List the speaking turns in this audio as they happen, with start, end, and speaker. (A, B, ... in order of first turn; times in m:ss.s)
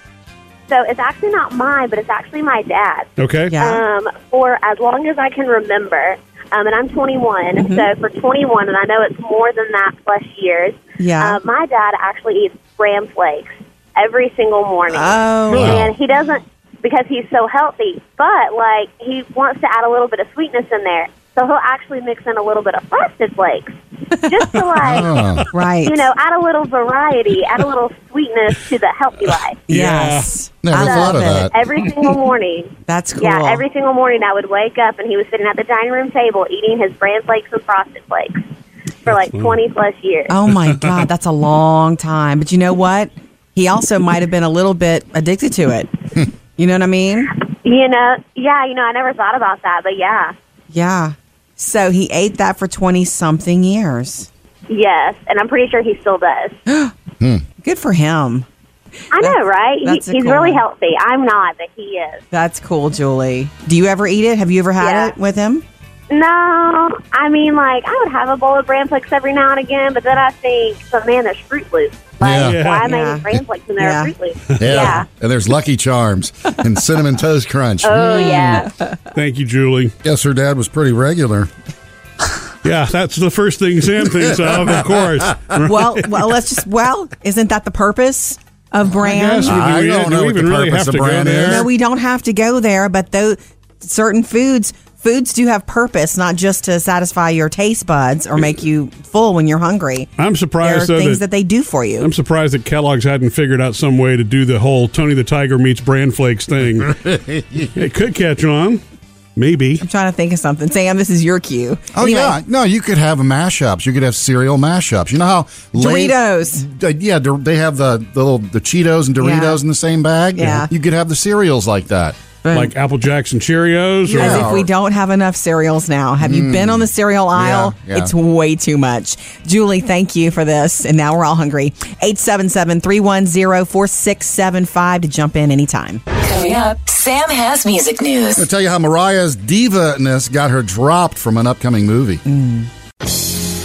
0:00.7-0:29.6 A
0:03.2-0:03.6 B
0:03.5-0:03.8 C
0:07.6-0:07.9 C
0:11.0-0:11.4 C
0:14.9-0:15.8 C
0:15.5-0:16.0 D
0:24.8-0:25.5 D
0:25.5-0:26.0 C
0:29.7-0:31.5 C
0:29.7-0:30.3 B
0:30.6-0:31.7 D
0:30.8-0:38.4 A
0:32.9-0:33.6 C
0:39.0-0:40.5 A
0:39.1-0:39.6 B
0:40.3-0:45.9 C
0:46.6-0:47.3 C
0:47.6-0:50.3 A
0:50.7-0:54.3 C
0:54.7-0:56.6 A
0:56.7-0:56.9 C
0:57.6-0:58.5 C
0:59.1-1:02.2 A
0:59.2-1:00.6 C
1:02.3-1:05.6 C
1:04.8-1:05.1 A
1:06.1-1:15.1 A
1:12.2-1:12.6 D
1:12.3-1:12.9 B
1:12.8-1:13.2 C
1:13.8-1:14.1 C
1:14.6-1:18.4 D
1:17.8-1:18.7 A
1:18.2-1:18.9 C
1:19.1-1:20.0 B
1:20.0-1:21.5 D
1:22.6-1:26.3 B
1:24.1-1:25.0 D
1:25.6-1:29.6 C
1:29.0-1:31.7 B
1:29.4-1:31.7 D
1:31.5-1:40.1 C
1:40.2-1:41.2 B
1:40.6-1:42.1 C
1:42.0-1:47.0 B
1:46.9-1:47.7 D
1:47.6-1:48.8 B
1:49.4-1:49.8 B
1:49.8-1:52.4 C
1:51.9-2:02.2 D
1:55.7-1:56.6 C
1:59.2-1:59.6 C
2:00.4-2:00.7 C
2:02.4-2:02.7 C
2:02.5-2:04.5 B
2:04.0-2:16.0 C
2:04.1-2:04.7 D
2:06.2-2:08.1 D
2:16.2-2:18.5 E
2:18.4-2:22.2 D
2:22.2-2:22.7 C